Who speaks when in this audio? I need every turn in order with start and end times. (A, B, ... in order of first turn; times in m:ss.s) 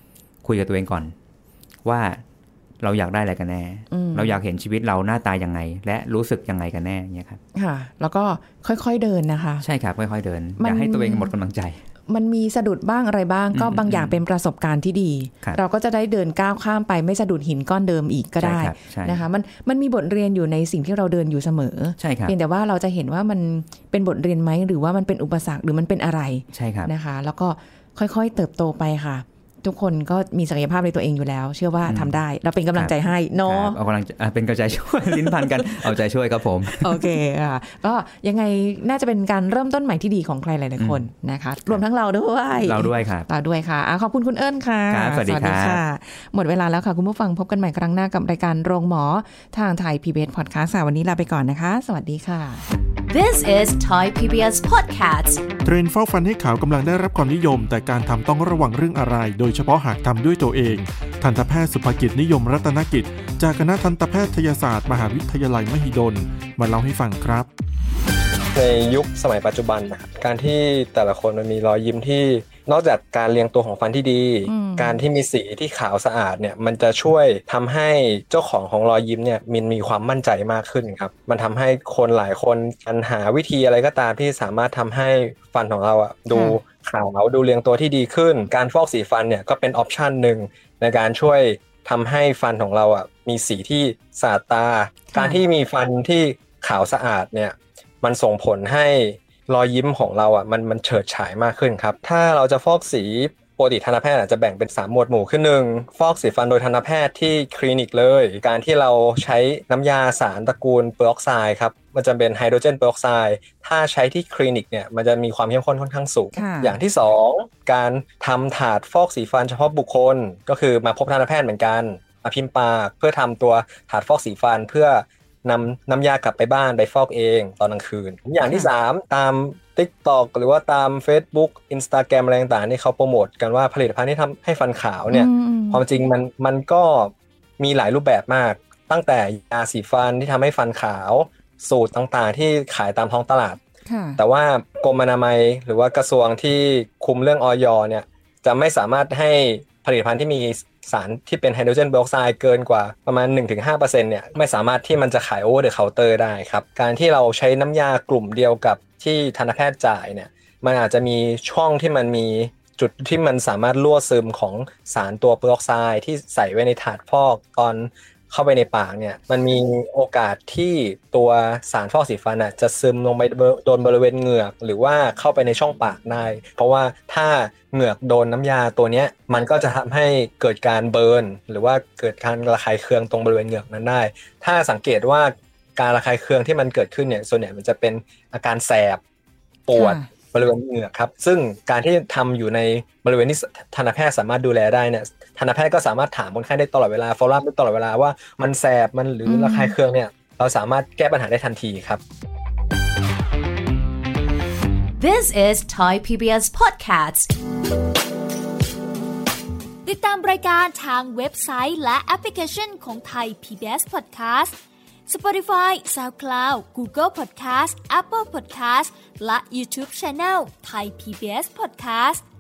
0:00.4-0:01.1 A
0:01.8-0:02.2 A
0:02.8-0:07.4 A
0:03.9-0:04.4 B
0:07.6-0:09.7 B
0:09.6-0:11.8 A
0:10.6-0:11.3 B
0:12.1-0:33.8 B
0:13.5-0:14.2 A
0:18.4-0:19.2 A
0:22.0-0:22.4 A
0:26.5-0:26.9 A
0:31.8-0:32.2 A
0:32.7-0:37.2 A
0:35.4-0:35.9 B
0:36.8-0:52.7 B
0:40.8-0:41.1 A
0:42.6-0:43.3 A
0:44.9-0:45.8 A
0:53.1-0:55.4 C
0:55.6-1:07.5 D
1:08.5-2:23.6 E
1:14.5-1:15.0 B
1:26.3-1:26.6 B
1:35.1-1:35.4 B
1:56.4-1:56.8 B
2:08.4-2:08.7 B
2:15.1-2:15.8 B
2:23.9-2:24.2 B
2:24.2-3:09.0 E
3:09.7-3:22.0 E
3:09.7-3:10.1 B
3:19.3-3:19.8 B
3:25.0-3:27.3 C
3:29.8-3:42.2 F